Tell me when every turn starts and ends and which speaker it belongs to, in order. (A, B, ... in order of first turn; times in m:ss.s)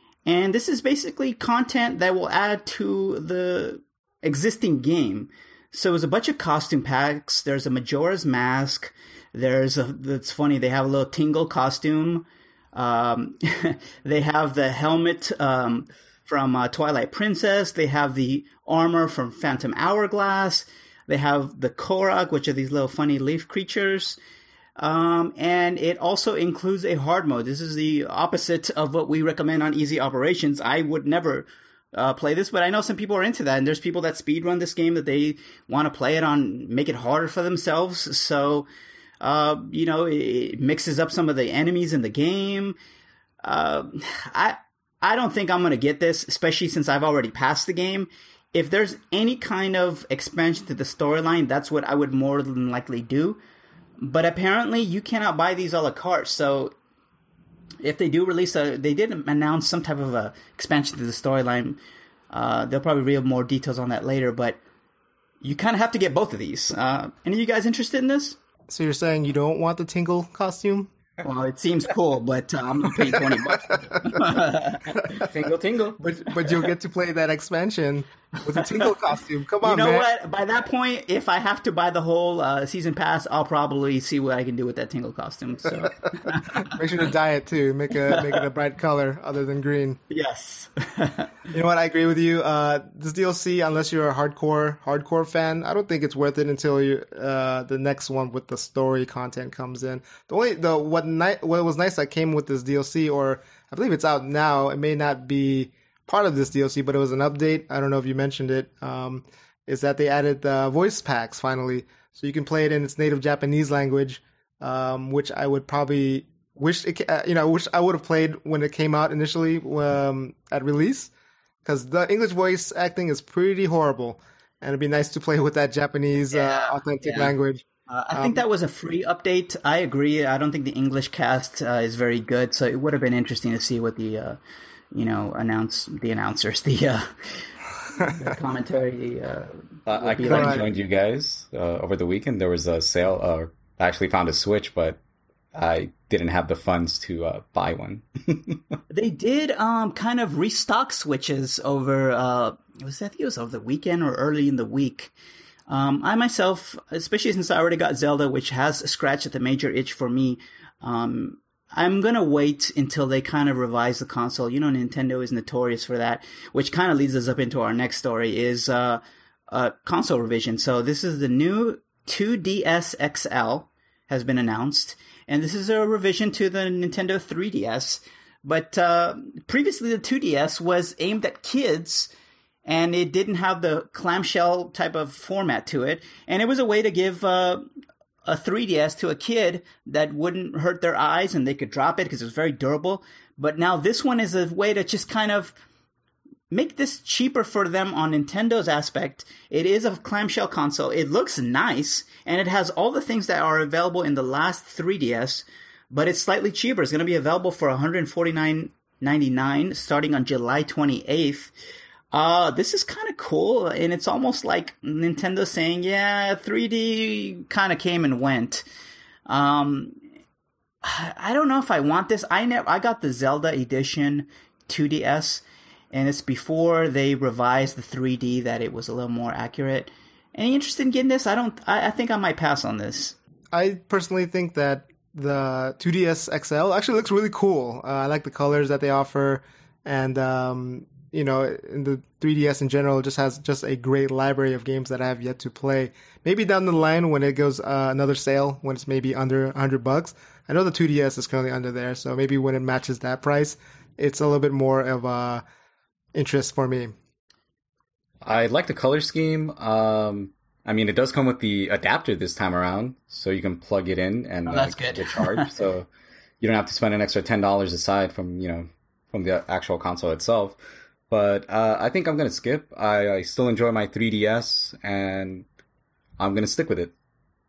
0:00.3-0:24.2 A
0:24.8-0:38.7 A
0:39.2-0:42.8 A
0:43.4-0:53.4 A
0:54.0-0:56.7 A
0:57.8-1:01.8 A
1:02.3-1:04.6 A
1:05.4-1:08.4 A
1:08.7-1:10.9 B
1:11.2-1:15.2 A
1:13.0-1:14.3 B
1:15.2-1:16.0 C
1:16.0-1:20.1 B
1:18.6-1:18.9 A
1:19.6-1:26.8 A
1:26.5-1:30.0 B
1:30.1-1:31.3 A
1:31.5-2:01.1 B
2:01.6-2:08.4 B
2:06.3-2:07.4 A
2:07.9-2:14.4 A
2:14.9-2:17.1 A
2:18.0-2:20.7 A
2:19.9-2:25.0 C
2:20.3-2:20.7 B
2:25.5-2:28.7 C
2:28.9-2:35.1 A
2:35.7-3:02.1 A
3:02.6-3:07.6 A
3:08.3-3:15.6 A
3:16.5-3:31.5 A
3:32.1-3:38.6 A
3:39.3-3:40.0 A
3:40.8-3:53.2 A
3:53.5-4:15.4 B
4:16.1-4:16.9 B
4:18.2-4:25.9 C
4:24.5-4:25.5 A
4:26.4-4:30.6 C
4:31.1-4:35.4 C
4:36.2-4:36.9 C